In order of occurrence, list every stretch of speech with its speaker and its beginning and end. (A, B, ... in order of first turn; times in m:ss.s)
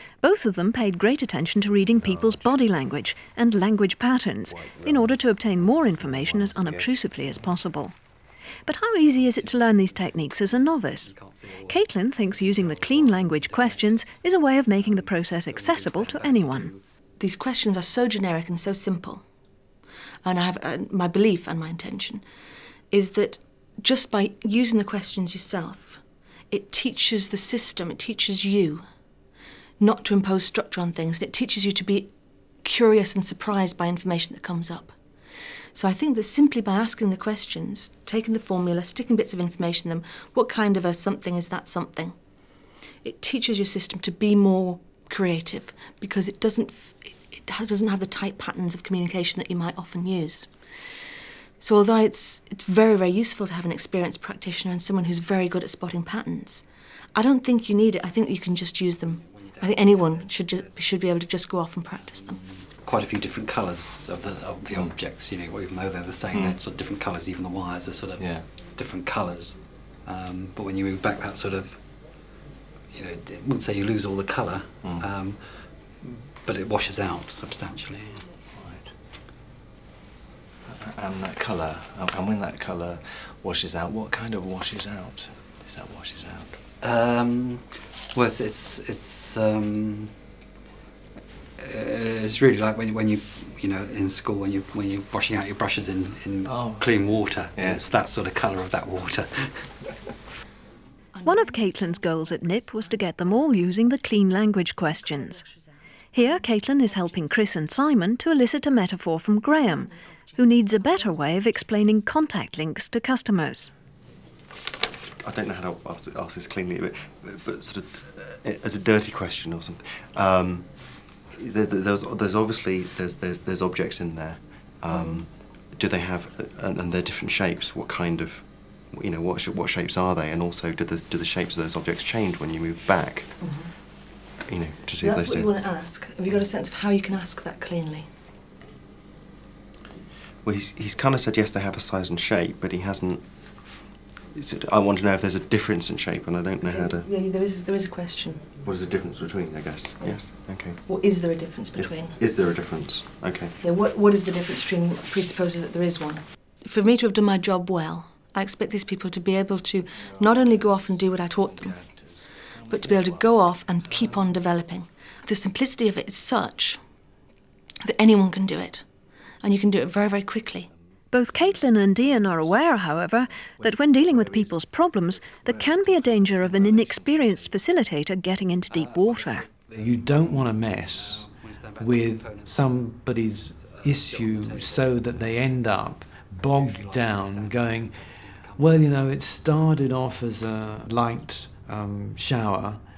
0:00.2-0:08.0 A
0:01.9-0:02.7 B
0:04.4-0:07.4 B
0:08.6-0:16.7 A
0:08.7-0:16.9 C
0:17.2-0:19.2 D
0:20.2-0:22.2 D
0:22.9-0:28.8 D
0:29.8-0:34.9 D
0:35.7-0:42.1 D
0:43.0-0:50.5 D
0:51.6-1:02.4 D
0:59.1-1:01.0 C
1:01.9-1:12.2 C
1:06.3-1:06.6 B
1:08.2-1:08.5 B
1:12.9-1:18.3 C
1:14.8-1:15.1 B
1:18.5-1:19.0 B
1:20.6-1:26.6 B
1:26.8-1:30.2 C
1:31.6-1:39.9 C
1:36.4-1:37.0 B
1:37.5-1:37.9 B
1:41.1-1:48.2 D
1:41.2-1:45.4 A
1:46.1-1:53.7 A
1:49.4-1:52.2 D
1:55.2-2:15.6 E
2:04.9-2:05.3 D
2:13.4-2:13.7 D
2:15.0-2:18.1 D
2:20.4-2:27.1 E
2:26.6-2:28.6 D
2:28.6-2:30.9 E
2:30.0-2:32.2 D
2:31.7-2:33.6 E
2:33.6-2:46.8 D
2:39.8-2:44.5 B
2:47.8-2:48.9 D
2:49.4-2:50.7 D
2:50.7-2:52.8 B
2:51.1-2:59.5 A
2:53.3-2:57.7 B
2:58.7-3:05.5 C
2:59.7-3:12.8 F
3:00.2-3:00.5 B
3:06.4-3:09.5 C